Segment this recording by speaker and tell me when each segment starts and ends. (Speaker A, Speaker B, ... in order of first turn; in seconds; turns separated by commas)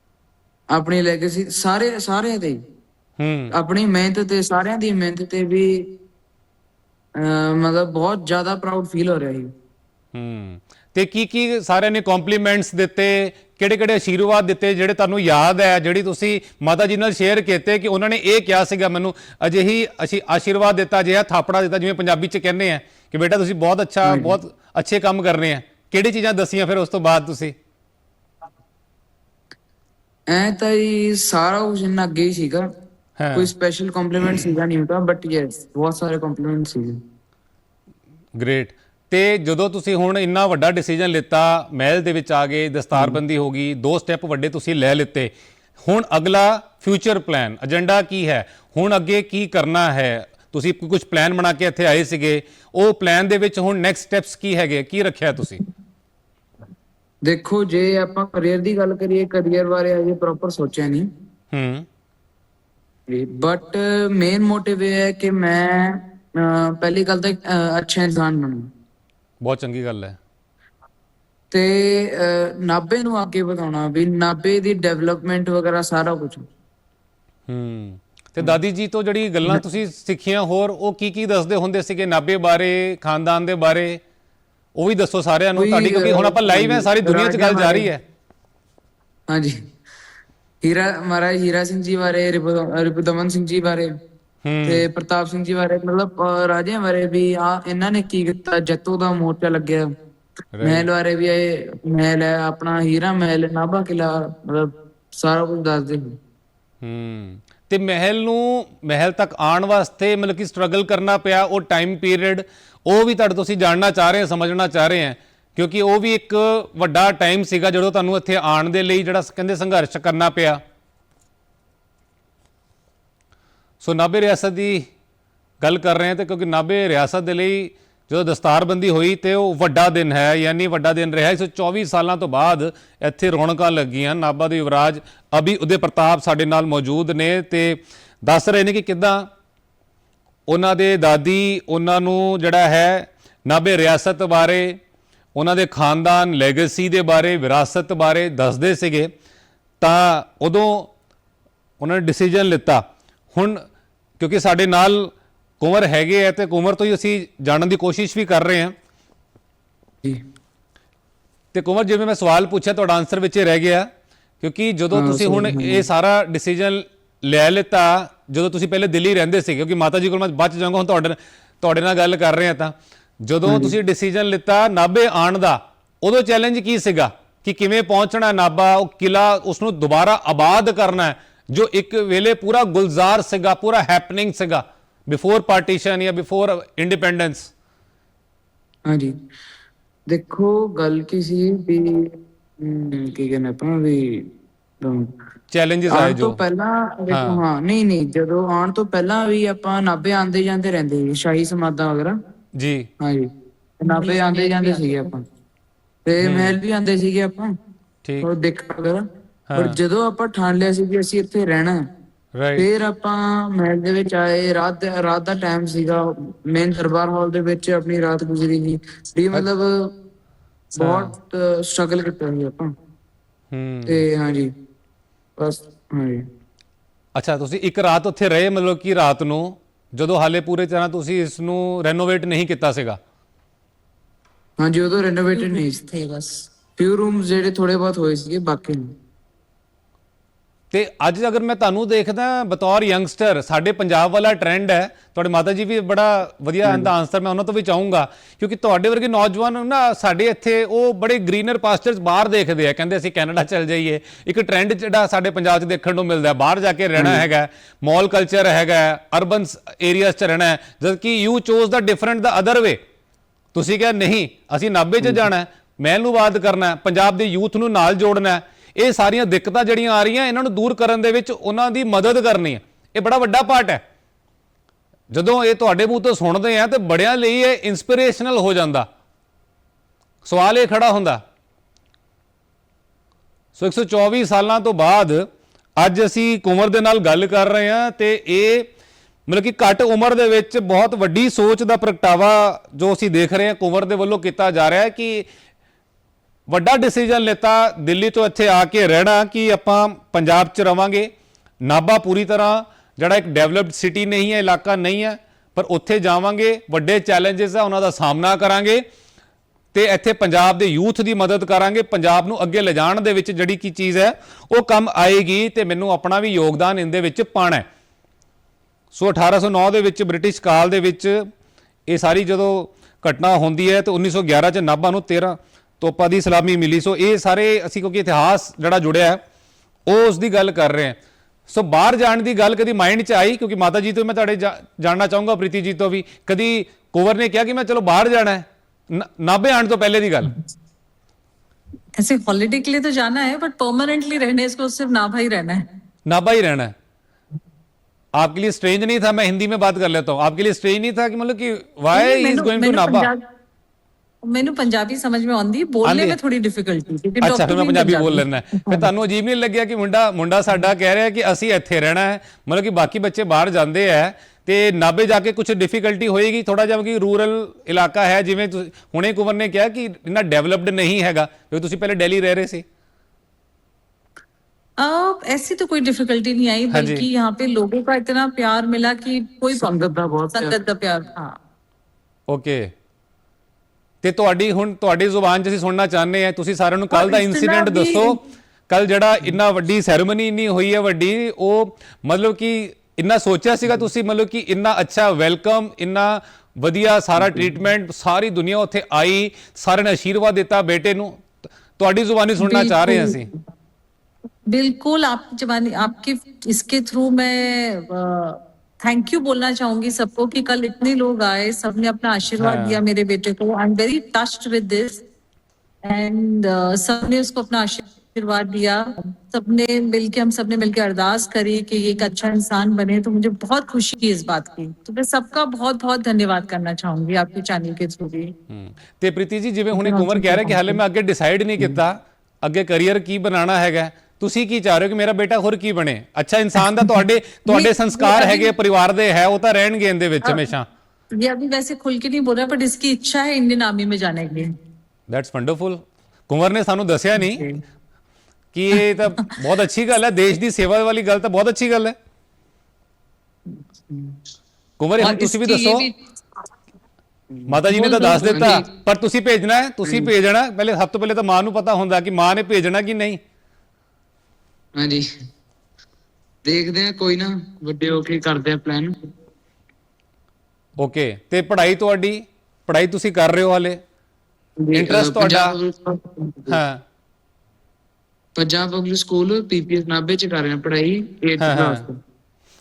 Speaker A: 0.7-2.6, Speaker B: 3.2-3.5, Speaker A: 3.5-5.9, Speaker A: 7.2-9.5, Speaker B: 10.1-27.5, Speaker A: 24.0-24.4, Speaker A: 30.3-32.6, Speaker B: 33.2-33.5, Speaker A: 33.3-37.0, Speaker B: 38.4-45.3, Speaker A: 42.9-43.2, Speaker B: 45.8-55.6, Speaker A: 57.2-61.0, Speaker B: 61.5-61.9, Speaker A: 63.1-68.7, Speaker B: 69.4-70.2, Speaker A: 71.5-76.5, Speaker B: 77.5-84.0, Speaker B: 84.8-88.0, Speaker A: 85.5-87.9, Speaker A: 89.3-89.6, Speaker A: 90.6-93.9, Speaker B: 94.4-94.8, Speaker A: 94.6-99.9, Speaker B: 100.6-100.9, Speaker A: 100.6-106.2, Speaker B: 106.8-120.6, Speaker B: 123.8-124.8, Speaker B: 125.6-139.3, Speaker B: 140.5-144.8, Speaker B: 145.3-149.1, Speaker B: 149.8-150.9, Speaker B: 151.8-152.8, Speaker B: 153.3-153.6, Speaker B: 154.2-158.7, Speaker B: 161.5-163.9, Speaker B: 164.4-187.5, Speaker A: 164.9-165.8, Speaker A: 173.4-173.8, Speaker A: 188.8-189.1, Speaker A: 190.1-194.3, Speaker A: 194.8-195.1, Speaker B: 195.5-196.4, Speaker A: 195.9-202.2, Speaker B: 197.1-197.4, Speaker B: 202.6-202.9, Speaker A: 203.0-205.2, Speaker C: 203.9-205.1, Speaker A: 206.0-207.5, Speaker B: 206.2-206.6, Speaker A: 208.2-209.0, Speaker B: 209.5-209.8, Speaker A: 209.5-211.8, Speaker B: 212.3-212.6, Speaker A: 212.6-219.9, Speaker A: 220.7-222.7, Speaker B: 220.8-221.1, Speaker B: 223.5-224.0, Speaker A: 223.8-224.5, Speaker A: 225.4-226.2, Speaker B: 227.2-233.0, Speaker A: 234.6-235.9, Speaker C: 235.3-236.3, Speaker A: 236.8-238.8, Speaker B: 240.7-262.8, Speaker A: 246.6-246.9, Speaker A: 256.9-257.2, Speaker B: 263.5-273.8, Speaker B: 275.1-278.9, Speaker B: 280.2-281.2, Speaker B: 283.6-285.2, Speaker B: 285.8-288.7, Speaker B: 289.3-295.3, Speaker B: 296.5-301.1, Speaker B: 301.6-308.8, Speaker B: 309.7-317.6, Speaker B: 318.9-321.2, Speaker B: 321.9-329.2, Speaker B: 329.9-331.0, Speaker B: 331.5-340.3, Speaker C: 342.0-345.6, Speaker B: 346.1-346.7, Speaker B: 348.2-353.1, Speaker C: 351.9-353.2, Speaker C: 354.2-358.9, Speaker B: 355.8-356.2, Speaker B: 357.2-372.6, Speaker C: 374.8-381.4, Speaker B: 376.7-377.1, Speaker A: 379.5-380.6, Speaker B: 382.3-382.7, Speaker B: 384.0-403.3, Speaker C: 386.9-388.2, Speaker C: 402.4-403.2, Speaker C: 404.5-415.0, Speaker B: 412.4-412.8, Speaker C: 415.8-428.3, Speaker B: 428.5-440.6, Speaker C: 429.8-430.5, Speaker C: 437.5-438.5, Speaker C: 441.2-444.5, Speaker B: 445.1-447.4, Speaker C: 447.2-447.5, Speaker B: 448.5-451.9, Speaker A: 453.9-454.1, Speaker B: 454.8-455.9, Speaker C: 455.0-455.9, Speaker A: 457.3-457.6, Speaker B: 457.5-463.2, Speaker C: 457.7-458.5, Speaker A: 458.3-458.7, Speaker A: 459.8-460.1, Speaker A: 464.7-465.0, Speaker A: 466.4-468.9, Speaker B: 470.8-473.8, Speaker A: 474.6-476.6, Speaker B: 474.7-475.5, Speaker B: 476.5-476.8, Speaker A: 478.3-482.0, Speaker B: 481.4-481.8